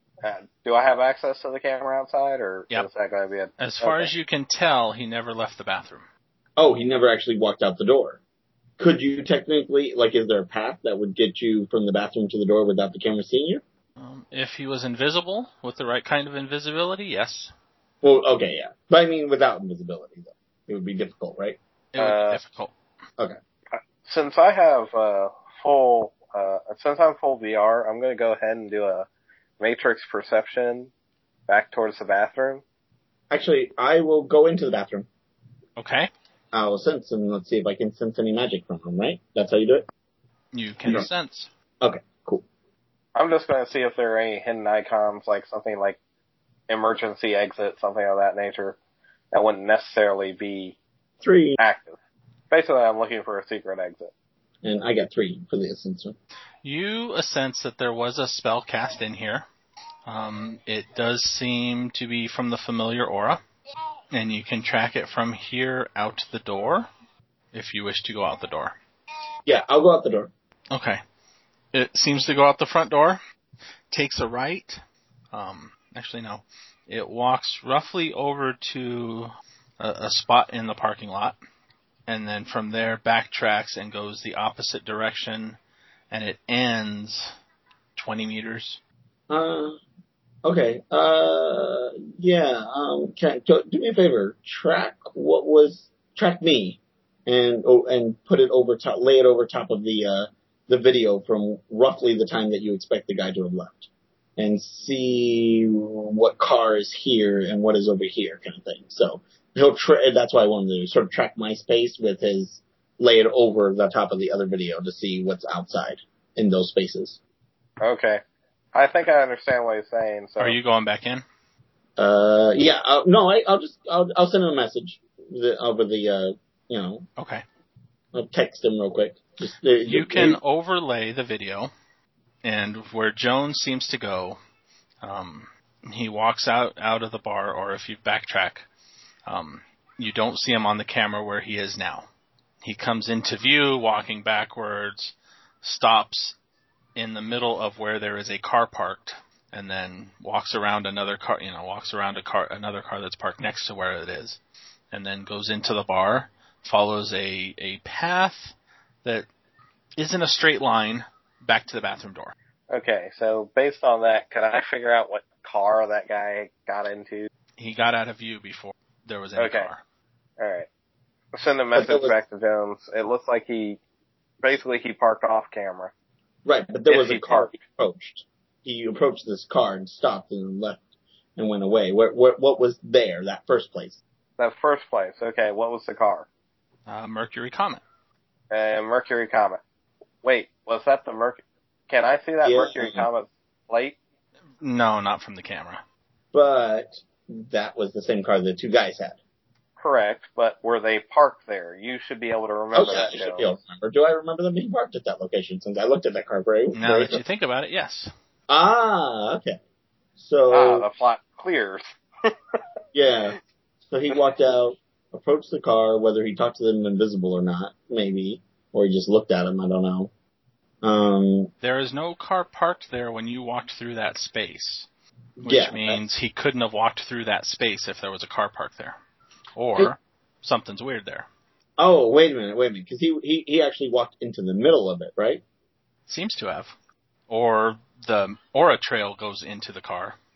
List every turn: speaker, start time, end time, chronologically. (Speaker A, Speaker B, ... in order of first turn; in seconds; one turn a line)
Speaker A: 0.2-4.1
Speaker B: 3.6-6.1
Speaker C: 6.6-8.2
Speaker C: 8.8-13.6
Speaker B: 14.0-17.5
Speaker C: 18.0-21.6
Speaker B: 21.9-22.7
Speaker A: 22.0-22.4
Speaker A: 23.7-29.1
Speaker A: 29.6-30.9
Speaker A: 31.5-32.6
Speaker C: 33.3-35.1
Speaker B: 35.8-36.1
Speaker C: 36.5-39.9
Speaker B: 40.5-41.5
Speaker C: 41.8-42.5
Speaker A: 43.1-46.0
Speaker A: 46.7-48.8
Speaker A: 49.3-50.8
Speaker C: 51.2-51.6
Speaker A: 51.6-52.0
Speaker A: 52.5-54.1
Speaker C: 54.6-56.1
Speaker B: 56.6-59.5
Speaker B: 60.1-63.4
Speaker B: 64.1-66.9
Speaker B: 67.5-68.8
Speaker C: 69.5-70.3
Speaker B: 70.7-71.0
Speaker B: 71.7-73.2
Speaker B: 73.9-74.8
Speaker B: 75.3-81.4
Speaker B: 82.1-85.6
Speaker B: 86.1-87.3
Speaker B: 88.0-88.8
Speaker C: 89.3-89.8
Speaker C: 90.4-117.2
Speaker A: 117.8-118.2
Speaker A: 118.7-120.6
Speaker B: 120.4-121.2
Speaker C: 122.0-127.1
Speaker B: 127.2-127.4
Speaker C: 128.1-130.4
Speaker B: 129.9-131.7
Speaker B: 132.4-134.4
Speaker B: 135.0-138.7
Speaker B: 139.3-142.1
Speaker B: 142.6-146.4
Speaker B: 146.9-154.4
Speaker B: 154.9-159.3
Speaker B: 160.0-162.3
Speaker A: 162.7-167.3
Speaker B: 167.6-169.8
Speaker A: 169.4-169.7
Speaker A: 170.4-170.7
Speaker A: 171.3-173.8
Speaker C: 171.8-172.2
Speaker A: 174.4-175.9
Speaker C: 176.4-180.8
Speaker A: 176.9-177.5
Speaker C: 181.4-184.0
Speaker A: 184.4-186.3
Speaker B: 186.9-187.8
Speaker A: 188.5-189.6
Speaker A: 190.2-194.0
Speaker C: 192.4-193.1
Speaker B: 194.6-195.8
Speaker C: 196.3-199.2
Speaker A: 199.8-203.4
Speaker C: 202.7-207.2
Speaker B: 206.7-208.1
Speaker C: 208.5-209.6
Speaker C: 210.2-210.9
Speaker A: 210.5-212.3
Speaker C: 212.9-213.4
Speaker C: 213.9-220.1
Speaker C: 220.8-221.5
Speaker B: 221.6-224.9
Speaker C: 225.4-226.0
Speaker B: 225.4-229.0
Speaker B: 229.6-231.3
Speaker C: 231.8-235.4
Speaker B: 236.1-236.7
Speaker B: 237.3-240.2